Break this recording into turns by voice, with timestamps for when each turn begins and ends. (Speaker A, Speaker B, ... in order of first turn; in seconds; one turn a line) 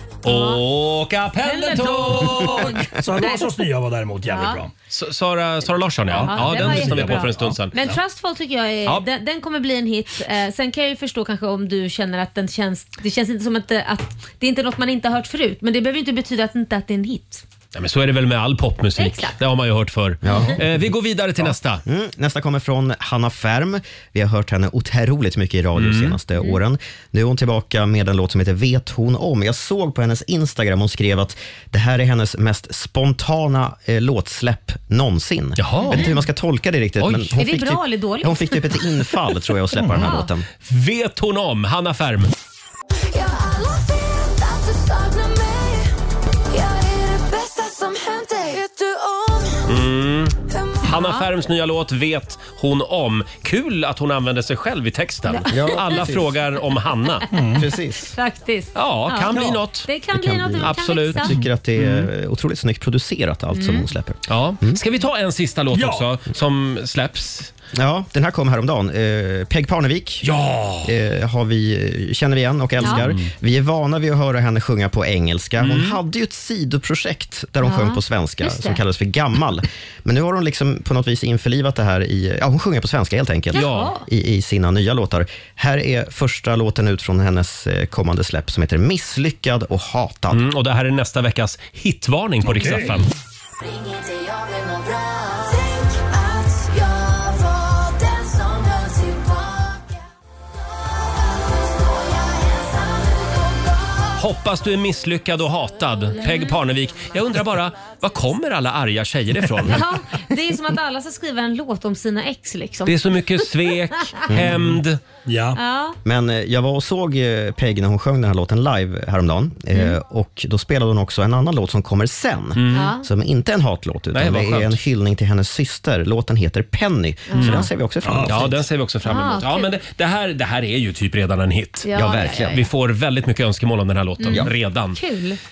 Speaker A: 0.2-2.9
Speaker B: 0.2-0.6
Speaker B: 1.4-3.5
Speaker C: 2.9-4.7
Speaker B: 4.2-4.6
Speaker A: 4.9-7.7
Speaker C: 6.2-8.0
Speaker B: 6.2-17.4
Speaker A: 17.7-21.8
Speaker B: 19.0-19.3
Speaker D: 20.2-20.6
Speaker D: 21.8-40.5
Speaker A: 25.8-26.2
Speaker A: 35.6-36.1
Speaker A: 37.0-37.3
Speaker B: 37.4-38.6
Speaker B: 40.0-40.3
Speaker A: 40.6-42.3
Speaker E: 43.0-46.0
Speaker E: 46.5-49.6
Speaker A: 49.6-57.2
Speaker E: 50.5-50.9
Speaker B: 50.9-51.2
Speaker B: 55.3-55.7
Speaker D: 55.5-56.0
Speaker C: 57.3-57.6
Speaker D: 57.6-58.1
Speaker B: 58.1-61.3
Speaker A: 58.7-59.9
Speaker C: 59.3-59.6
Speaker D: 60.1-64.8
Speaker A: 60.6-62.1
Speaker B: 63.5-63.8
Speaker A: 64.3-67.5
Speaker C: 65.7-66.1
Speaker D: 67.7-70.3
Speaker A: 70.2-70.9
Speaker D: 70.8-90.4
Speaker A: 72.9-73.2
Speaker A: 75.6-76.0
Speaker B: 77.6-78.8
Speaker B: 83.5-84.0
Speaker A: 83.5-83.9
Speaker A: 90.3-93.1
Speaker C: 92.4-93.0
Speaker E: 93.6-100.0
Speaker E: 100.6-104.2
Speaker A: 104.2-109.8
Speaker B: 109.7-112.9
Speaker A: 112.8-115.0
Speaker D: 114.3-114.6
Speaker C: 115.2-115.6
Speaker B: 115.5-116.0
Speaker D: 116.0-128.6
Speaker A: 122.5-122.9
Speaker B: 122.7-123.0
Speaker A: 124.1-124.8
Speaker B: 127.3-127.6
Speaker A: 127.4-127.7
Speaker C: 128.0-128.4
Speaker A: 128.2-135.0
Speaker B: 129.0-129.7
Speaker B: 131.8-132.6
Speaker D: 131.9-132.6
Speaker B: 134.2-135.4